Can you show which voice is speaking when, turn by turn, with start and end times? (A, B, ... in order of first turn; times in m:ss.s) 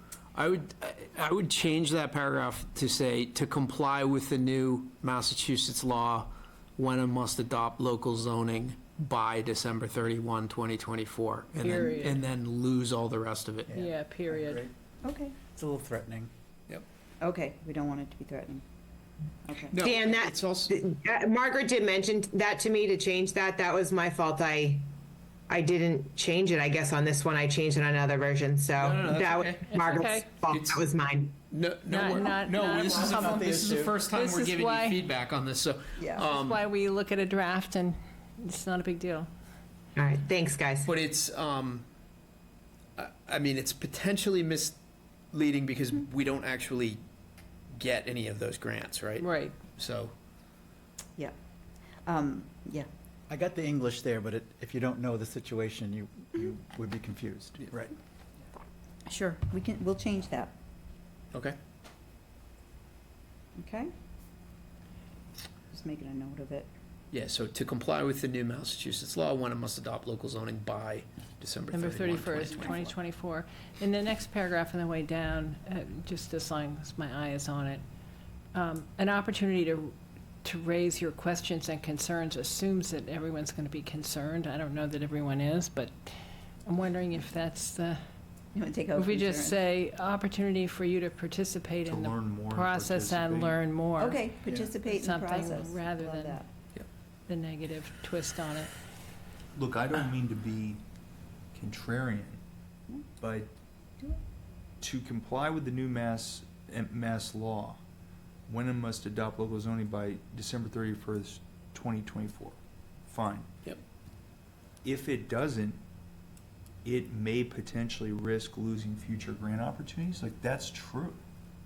0:00.3-0:13.7 A
0:11.6-0:12.2 B
0:13.7-0:14.7 C
0:13.7-0:14.7 B
0:15.0-0:15.4 D
0:15.5-0:16.3 C
0:17.2-0:18.6 D
0:19.4-0:19.8 D
0:19.8-0:24.8 E
0:19.8-0:20.7 A
0:25.5-0:31.3 E
0:28.8-0:29.7 A
0:29.7-0:30.4 B
0:30.5-0:30.8 A
0:31.5-0:36.5 A
0:31.9-0:35.0 B
0:32.4-0:34.0 C
0:36.0-0:36.3 D
0:36.2-0:39.3 B
0:40.0-0:40.9 E
0:40.8-0:41.8 A
0:43.0-0:44.8 A
0:45.3-0:47.0 A
0:47.7-0:50.1 A
0:49.2-0:49.6 B
0:52.0-0:52.9 D
0:53.3-0:57.9 C
0:59.1-1:00.5 D
1:03.6-1:03.9 D
1:05.7-1:06.7 D
1:07.1-1:12.8 A
1:11.7-1:17.8 B
1:18.5-1:26.1 B
1:26.6-1:28.0 B
1:28.5-1:29.6 D
1:28.9-1:34.2 B
1:31.8-1:33.6 F
1:34.0-1:36.5 D
1:34.8-1:36.4 B
1:37.3-1:38.7 B
1:39.6-1:40.8 F
1:41.5-1:42.4 F
1:43.2-1:43.5 F
1:44.8-1:47.8 F
1:48.5-1:52.6 F
1:53.1-1:53.5 F
1:54.8-1:55.8 F
1:56.8-2:01.2 F